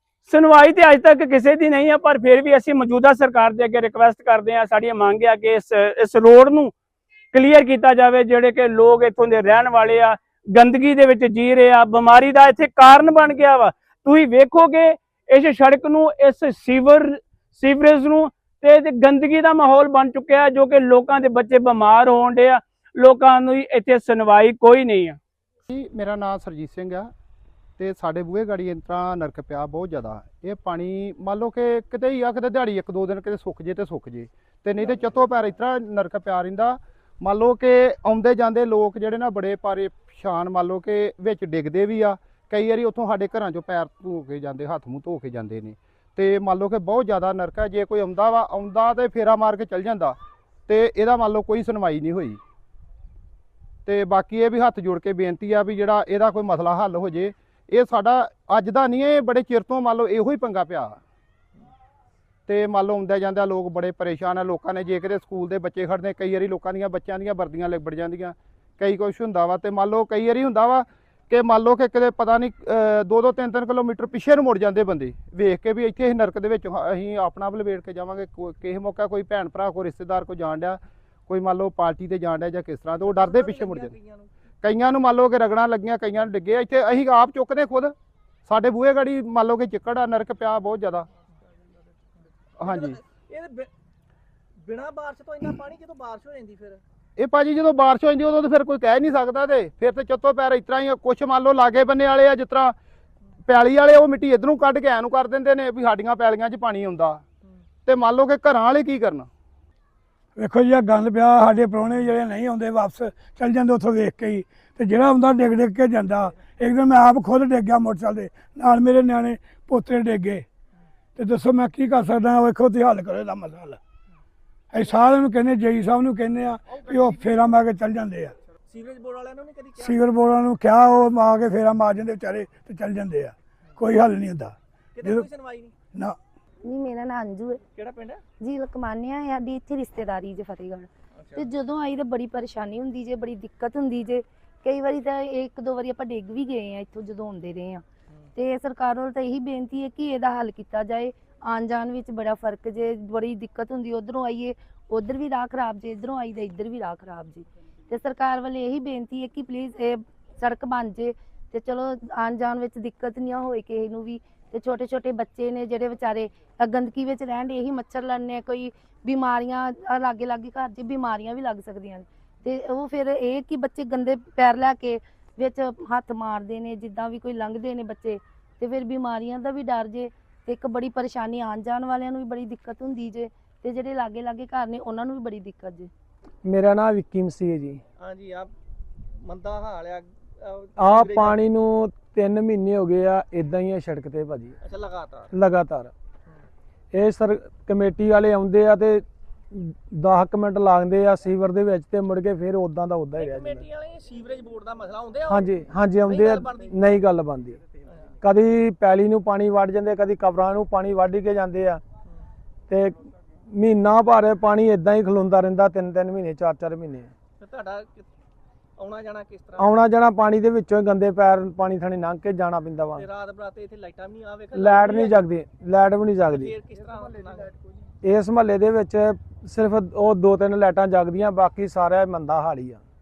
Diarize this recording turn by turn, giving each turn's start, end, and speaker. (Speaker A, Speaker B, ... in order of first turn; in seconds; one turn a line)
Speaker A: 0.3-6.7
Speaker A: 7.3-25.2
Speaker B: 25.7-27.1
Speaker B: 27.8-50.2
Speaker B: 50.7-52.4
Speaker B: 53.9-61.0
Speaker B: 62.5-84.0
Speaker C: 83.0-84.3
Speaker B: 84.6-87.9
Speaker B: 88.5-91.1
Speaker B: 92.6-93.0
Speaker C: 92.7-93.7
Speaker C: 94.7-96.8
Speaker B: 97.2-102.8
Speaker B: 103.5-107.2
Speaker B: 107.9-109.3
Speaker D: 110.4-120.5
Speaker D: 121.2-123.8
Speaker D: 124.7-128.3
Speaker C: 128.7-130.0
Speaker D: 129.8-135.3
Speaker C: 135.0-135.7
Speaker E: 136.7-137.6
Speaker C: 137.7-138.2
Speaker E: 138.4-147.8
Speaker E: 148.4-185.9
Speaker F: 186.4-187.8
Speaker C: 188.0-188.5
Speaker C: 189.2-191.4
Speaker F: 190.8-194.6
Speaker C: 194.6-195.3
Speaker F: 195.3-195.9
Speaker F: 196.9-203.7
Speaker C: 203.2-205.5
Speaker F: 205.3-207.6
Speaker C: 206.1-206.7
Speaker F: 208.2-211.8
Speaker F: 212.7-213.0
Speaker F: 213.5-217.1
Speaker C: 217.4-218.1
Speaker C: 218.8-219.7
Speaker F: 219.6-223.1
Speaker C: 223.0-225.2
Speaker F: 224.5-226.6
Speaker C: 226.3-227.5
Speaker F: 228.0-232.8